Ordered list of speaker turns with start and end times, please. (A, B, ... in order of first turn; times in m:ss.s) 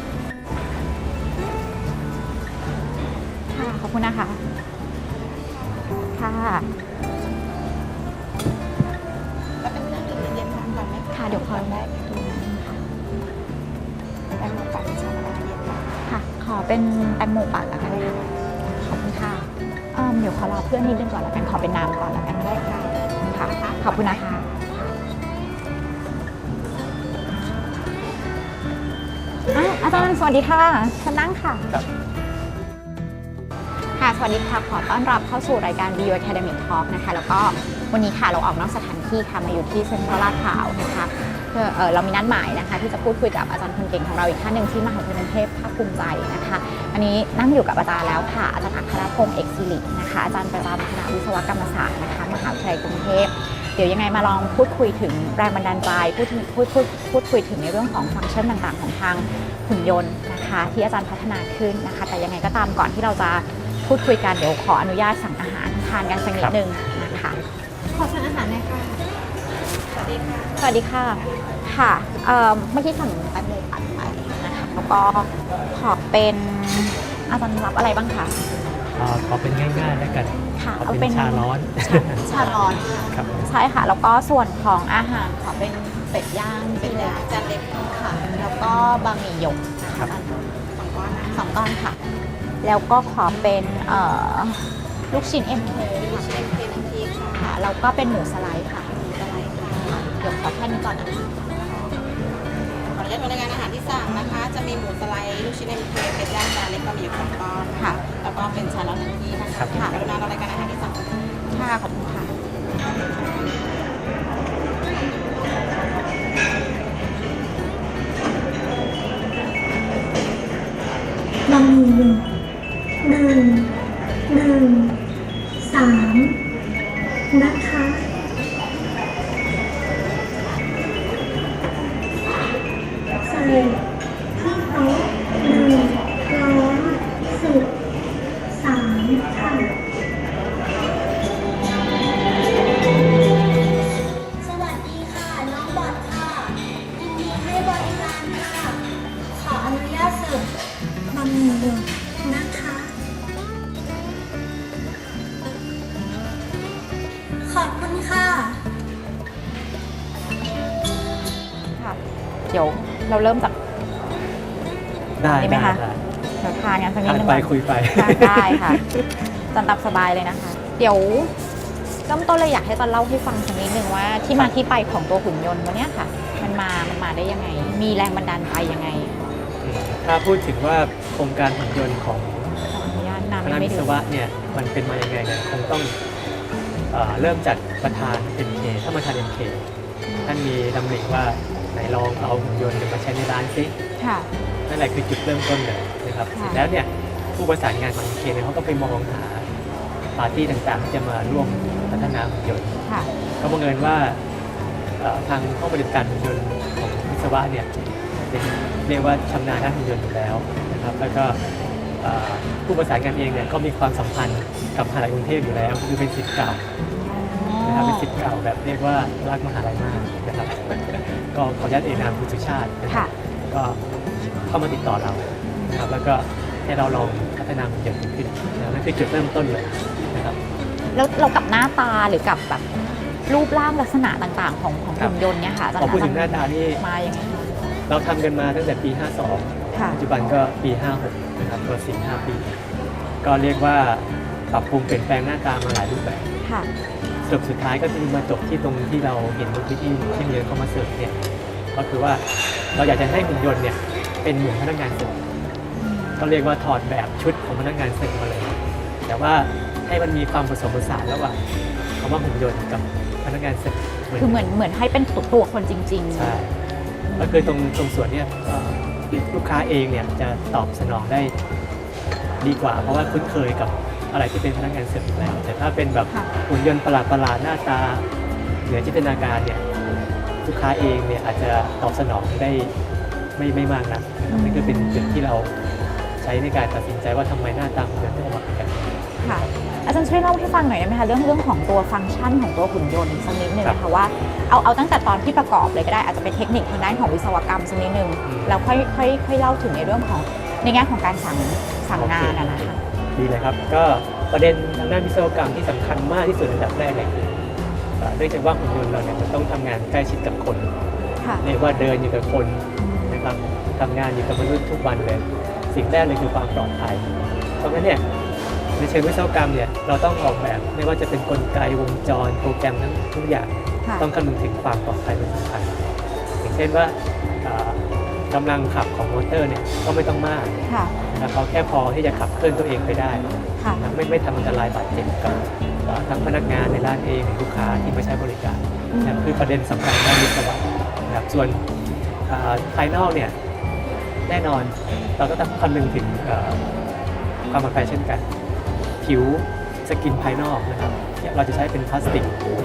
0:03.5-0:04.4 A
0:05.2-0:06.1 B
0:06.1-0:06.7 A
0:09.6-0:11.8 B
0:11.1-0:12.8 A
0:14.4-0:15.5 A
0:15.4-0:15.8 B
0:16.0-0:24.5 A
0:29.5-0:31.7 A
0:33.9-1:09.0 A
1:10.0-1:10.5 B
1:10.6-1:18.4 A
1:19.0-1:22.3 C
1:20.5-1:27.2 A
1:23.1-1:23.5 C
1:27.0-1:27.6 B
1:27.8-1:30.3 A
1:30.6-1:31.3 B
1:31.3-1:32.0 A
1:32.6-1:36.5 A
1:36.2-1:37.3 B
1:37.3-1:39.0 A
1:39.0-1:39.9 B
1:39.8-1:41.4 A
1:41.6-1:41.9 B
1:42.9-1:51.1 B
1:47.8-1:48.0 A
1:49.7-1:50.0 A
1:51.5-1:52.3 A
2:01.5-2:02.2 D
2:03.0-2:03.7 D
2:03.1-2:03.6 B
2:04.3-2:05.0 D
2:05.6-2:06.4 D
2:07.3-2:08.0 D
2:13.2-2:13.8 D
2:13.2-2:13.7 B
2:14.3-2:17.7 D
2:14.9-2:17.0 B
2:18.5-2:19.7 D
2:19.0-2:19.7 B
2:24.4-2:30.5 B
2:24.6-2:27.2 D
2:27.8-2:28.7 D
2:29.5-2:30.2 D
2:31.1-2:32.9 B
2:31.1-2:32.9 D
2:37.4-2:38.5 D
2:38.3-2:38.6 B
2:42.5-2:43.6 A
2:45.2-2:46.0 C
2:45.3-2:45.8 A
2:46.4-2:48.8 A
2:47.0-2:49.3 C
2:49.5-2:51.3 A
2:52.1-2:59.2 A
2:59.6-3:02.6 C
3:02.7-3:03.9 A
3:03.4-3:06.0 C
3:06.9-3:09.6 C
3:10.1-3:10.4 A
3:10.2-3:13.7 C
3:14.0-3:14.3 A
3:14.7-3:19.5 C
3:16.3-3:16.6 A
3:20.2-3:22.8 C
3:21.3-3:22.2 A
3:22.8-3:23.1 A
3:23.4-3:24.2 C
3:25.0-3:27.7 C
3:28.3-3:31.4 C
3:32.0-3:36.6 C
3:37.0-3:38.1 A
3:37.6-3:43.8 C
3:44.5-3:50.4 C
3:45.5-3:45.8 A
3:50.9-3:52.6 A
3:53.3-3:57.6 A
3:55.8-3:56.8 C
3:57.9-4:02.5 C
3:59.7-4:00.0 A
4:03.2-4:06.3 C
4:06.4-4:06.7 A
4:07.2-4:12.2 C
4:12.7-4:15.2 C
4:15.8-4:16.2 A
4:16.2-4:21.4 C
4:22.0-4:24.5 C
4:24.1-4:26.4 A
4:26.1-4:26.6 C
4:27.1-4:27.5 A
4:27.2-4:31.3 C
4:32.4-4:38.0 C
4:38.6-4:39.6 C
4:40.4-4:42.7 C
4:43.4-4:45.5 C
4:44.3-4:45.2 A
4:46.2-4:48.9 C
4:49.2-5:02.8 A
4:58.2-4:58.6 C
5:01.9-5:07.5 C
5:08.0-5:10.7 C
5:11.2-5:11.5 A
5:11.4-5:17.1 C
5:12.8-5:13.2 A
5:17.6-5:18.0 C
5:18.8-5:25.7 C
5:26.4-5:30.6 C
5:30.6-5:30.9 A
5:31.1-5:41.6 C
5:38.9-5:39.3 A
5:42.3-5:43.3 C
5:44.3-5:46.6 C
5:47.5-5:48.2 C
5:49.0-5:52.4 C